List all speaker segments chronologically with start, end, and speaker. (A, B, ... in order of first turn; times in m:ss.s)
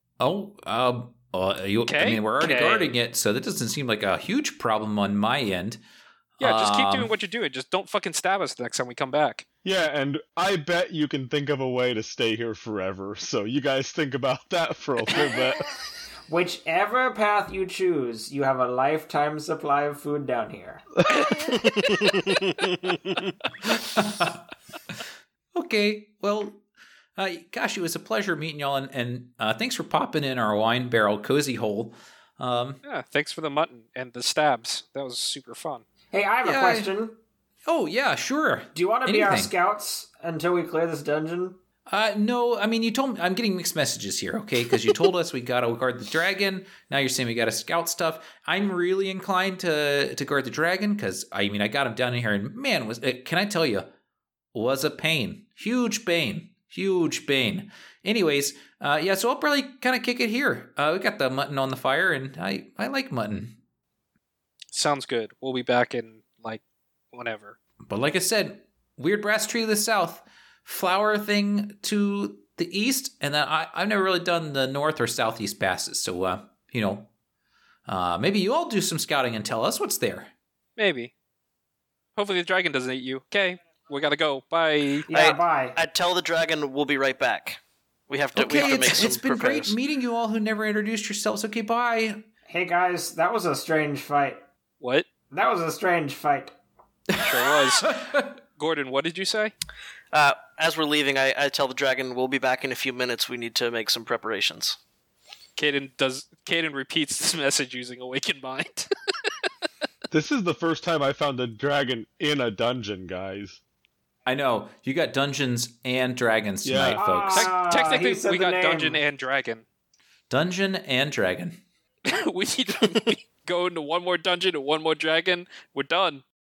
0:00.2-0:05.8 A
0:01.9-0:02.9 B
0:06.4-0:07.1 A
0:06.4-0:09.5 B
0:09.6-0:15.7 C
0:16.3-0:20.8 D
0:21.1-0:21.4 C
0:21.5-0:23.2 E
0:23.6-0:24.4 A
0:25.5-0:26.6 A
0:27.2-0:32.8 A
0:32.8-0:35.8 B
0:36.1-0:37.2 D
0:36.4-0:36.9 A
0:37.6-0:39.5 A
0:38.7-0:41.6 D
0:41.9-0:53.9 A
0:54.5-1:03.6 A
1:04.7-1:06.6 B
1:07.1-1:07.6 B
1:07.9-1:17.1 A
1:17.9-1:20.3 A
1:20.8-1:21.1 B
1:22.2-1:25.1 B
1:25.1-1:25.8 D
1:25.1-1:29.8 E
1:28.4-1:32.2 A
1:32.5-1:34.4 D
1:34.8-1:35.1 B
1:35.3-1:36.6 D
1:37.2-1:38.3 A
1:37.2-1:38.0 B
1:38.6-1:39.5 B
1:40.1-1:44.8 E
1:45.6-1:48.9 B
1:50.1-1:53.6 C
1:54.3-1:57.5 A
1:56.6-1:57.0 C
1:57.0-1:59.0 D
1:57.3-1:59.6 B
2:00.3-2:01.6 A
2:02.1-2:06.2 B